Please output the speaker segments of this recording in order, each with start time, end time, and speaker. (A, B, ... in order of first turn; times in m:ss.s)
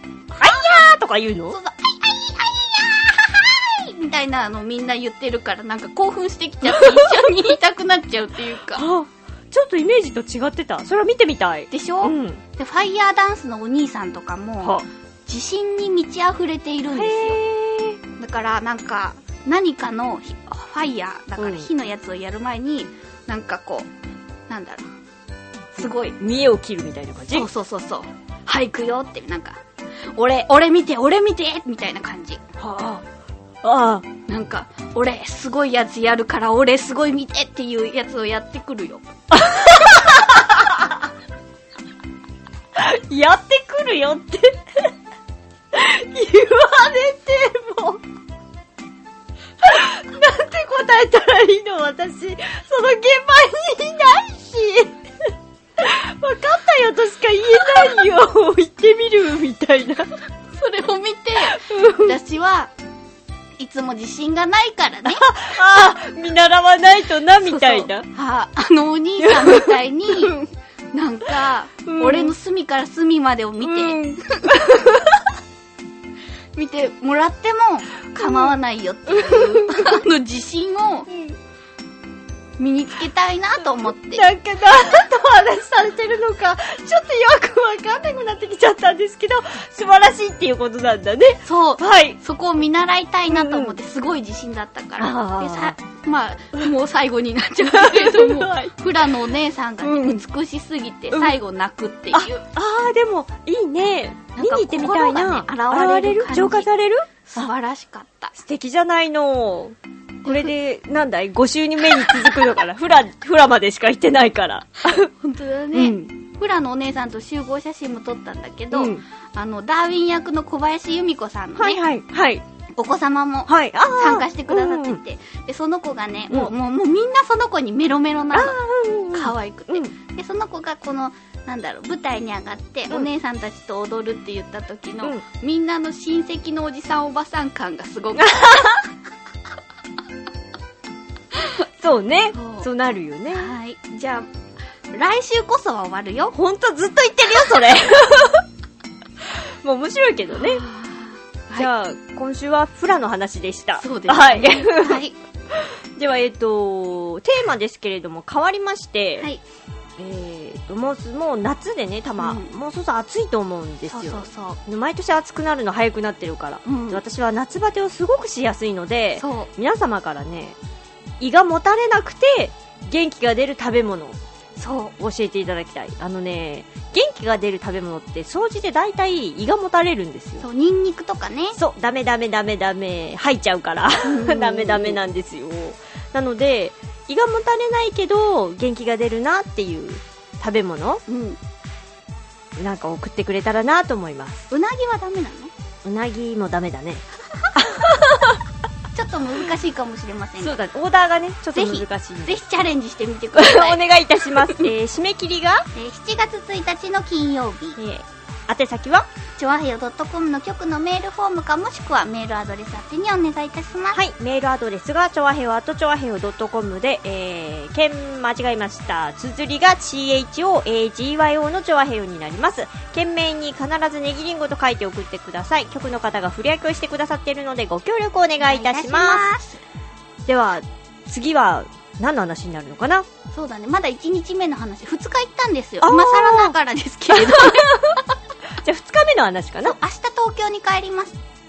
0:00.4-0:00.8 A
0:00.4-0:01.6 B
0:01.5-0:08.8 A
0:06.6-0:07.4 B
0:08.7-0:12.4 B
0:11.7-0:17.4 A
0:14.6-0:14.8 B
0:16.9-0:18.0 B
0:18.2-0:23.9 A
0:21.4-0:21.7 B
0:24.5-0:24.9 A
0:25.8-0:26.2 A
0:25.8-0:27.5 B
0:27.3-0:29.6 A
0:30.1-0:32.4 A
0:32.6-0:33.0 B
0:33.6-0:34.0 B
0:34.2-0:39.0 A
0:39.3-0:40.9 B
0:42.8-0:44.9 B
0:45.7-0:48.0 B
0:49.6-1:00.1 B
1:00.5-1:02.7 A
1:01.4-1:02.1 B
1:03.6-1:05.2 A
1:05.0-1:08.1 B
1:07.4-1:10.4 A
1:09.2-1:10.4 B
1:10.9-1:14.6 A
1:11.9-1:12.3 B
1:13.6-1:15.2 B
1:16.5-1:21.1 A
1:18.2-1:18.6 B
1:19.1-1:20.0 B
1:21.1-1:21.4 B
1:22.6-1:24.2 A
1:23.6-1:32.2 B
1:31.4-1:42.4 A
1:33.3-1:33.8 B
1:35.0-1:35.8 B
1:37.6-1:39.1 B
1:39.8-1:40.2 B
1:41.1-1:41.4 B
1:42.1-1:47.5 B
1:44.4-1:46.7 A
1:47.2-1:48.3 A
1:48.3-1:55.1 B
1:50.2-1:50.5 A
1:51.9-1:52.5 A
1:54.9-2:01.8 A
1:55.7-1:56.1 B
1:58.7-1:59.0 B
2:01.6-2:02.4 B
2:02.8-2:08.6 A
2:03.5-2:05.0 B
2:08.3-2:09.9 B
2:09.1-2:18.9 A
2:18.2-2:18.8 B
2:21.8-2:23.5 B
2:22.3-2:22.7 A
2:23.3-2:24.3 A
2:24.9-2:26.3 A
2:26.3-2:28.4 B
2:29.2-2:30.6 B
2:30.4-2:31.7 A
2:31.5-2:39.3 B
2:33.8-2:35.2 A
2:40.0-2:50.6 B
2:42.2-2:42.5 A
2:43.8-2:44.6 A
2:46.6-2:47.0 A
2:49.2-2:49.5 A
2:51.2-2:54.2 B
2:54.6-2:54.9 A
2:55.0-3:00.4 B
3:00.4-3:01.6 A
3:01.5-3:11.0 B
3:04.0-3:05.0 A
3:11.1-3:11.4 A
3:12.6-3:14.5 B
3:14.5-3:15.5 A
3:15.8-3:17.0 B
3:17.6-3:18.4 B
3:18.9-3:20.6 A
3:20.4-3:22.4 B
3:21.5-3:24.7 A
3:23.3-3:25.7 B
3:25.7-3:27.8 A
3:27.8-3:29.0 B
3:29.4-3:34.0 A
3:33.9-3:49.3 B
3:48.4-3:49.6 A
3:50.3-3:53.0 B
3:53.3-3:58.0 A
3:55.8-3:56.6 B
3:57.1-3:58.0 B
3:58.6-3:59.8 B
3:59.6-4:01.2 A